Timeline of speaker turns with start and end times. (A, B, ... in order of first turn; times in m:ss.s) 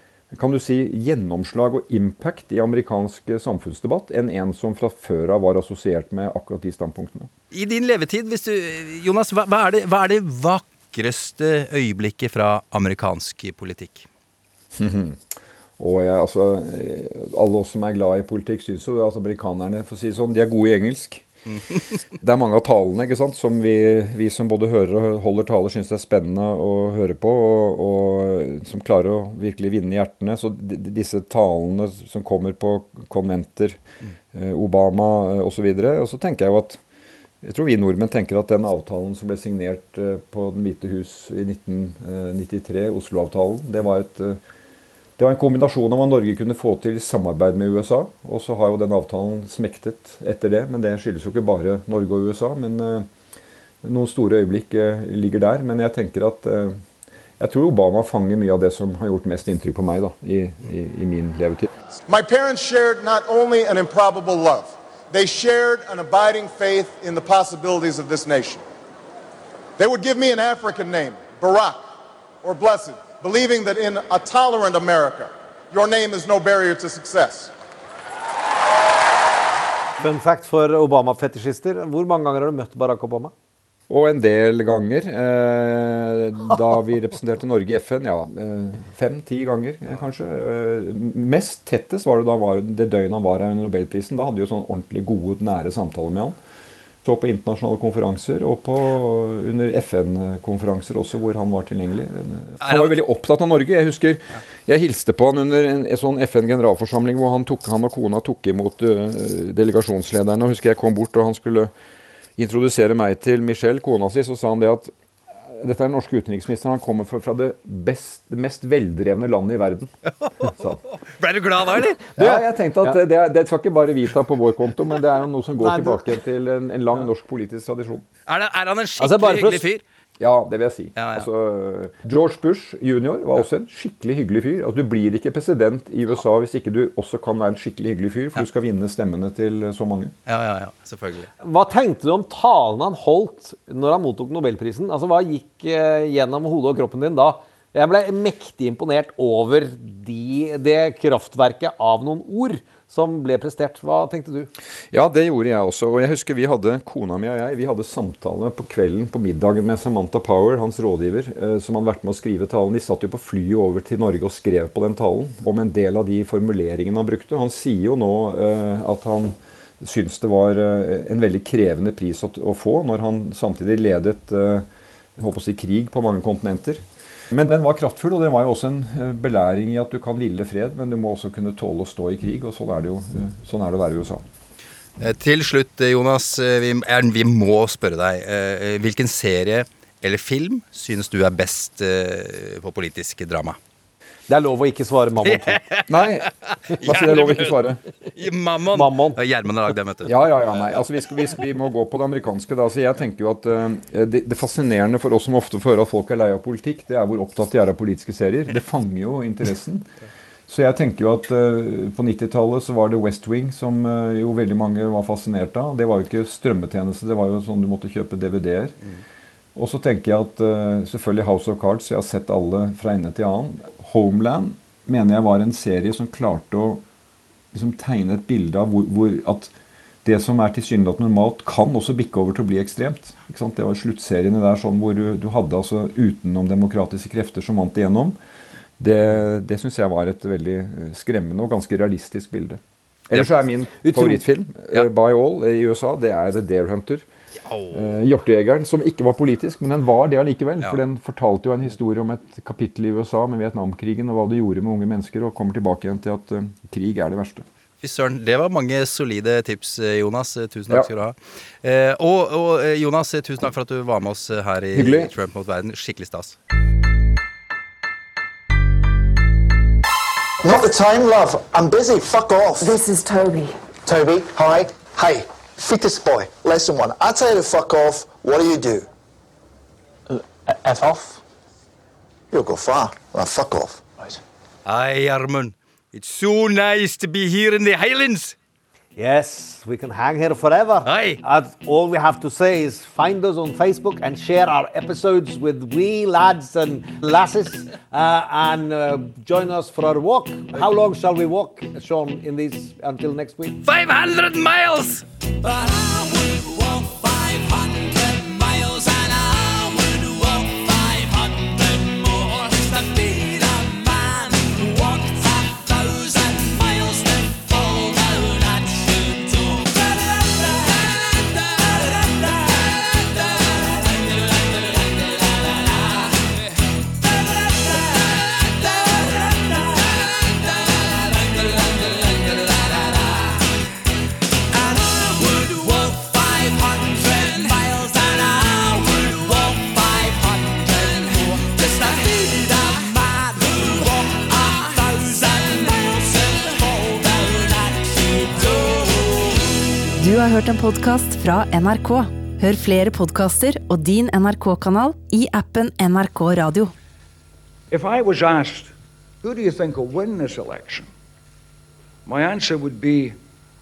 0:00.3-0:07.3 A
0:07.5-0:14.1 B
0:14.7-0:15.2 A
0:15.8-0:21.2 A
0:22.2-0:33.8 A
0:34.3-0:36.8 A
0:37.4-0:44.4 A
0:45.2-0:53.1 A
0:53.8-0:56.8 A
0:57.4-1:01.7 A
1:02.1-1:08.6 C
1:09.8-1:11.8 C
1:12.4-1:17.5 C
1:20.0-1:23.3 D
1:23.9-1:36.4 A
1:37.0-1:51.7 A
1:42.6-1:42.9 B
1:52.4-1:54.9 A
1:55.5-2:00.8 A
2:00.2-2:02.1 B
2:02.2-2:08.0 A
2:02.2-2:02.9 D
2:05.6-2:06.1 D
2:08.2-2:09.8 B
2:09.0-2:09.6 D
2:10.2-2:20.1 A
2:11.0-2:11.3 B
2:20.2-2:21.3 B
2:21.4-2:34.5 D
2:34.9-2:54.6 A
2:55.2-3:04.2 A
3:05.0-3:13.6 B
3:14.3-3:15.6 D
3:15.2-3:17.6 B
3:15.9-3:17.8 A
3:18.1-3:20.2 B
3:18.7-3:19.2 D
3:20.0-3:29.9 A
3:30.5-3:38.8 A
3:39.5-3:46.8 A
3:47.5-3:49.5 A
3:50.0-3:58.2 A
3:58.8-4:07.0 A
4:03.8-4:04.2 D
4:07.5-4:07.8 B
4:07.7-4:17.4 A
4:17.8-4:26.4 B
4:24.7-4:25.1 A
4:30.4-4:38.9 E
4:40.1-4:41.2 E
4:42.3-4:44.2 E
4:44.6-4:48.4 B
4:49.0-5:03.6 D
4:50.8-4:51.2 B
5:03.6-5:05.0 B
5:50.0-5:56.7 F
5:57.7-6:00.9 G
6:02.0-6:03.2 G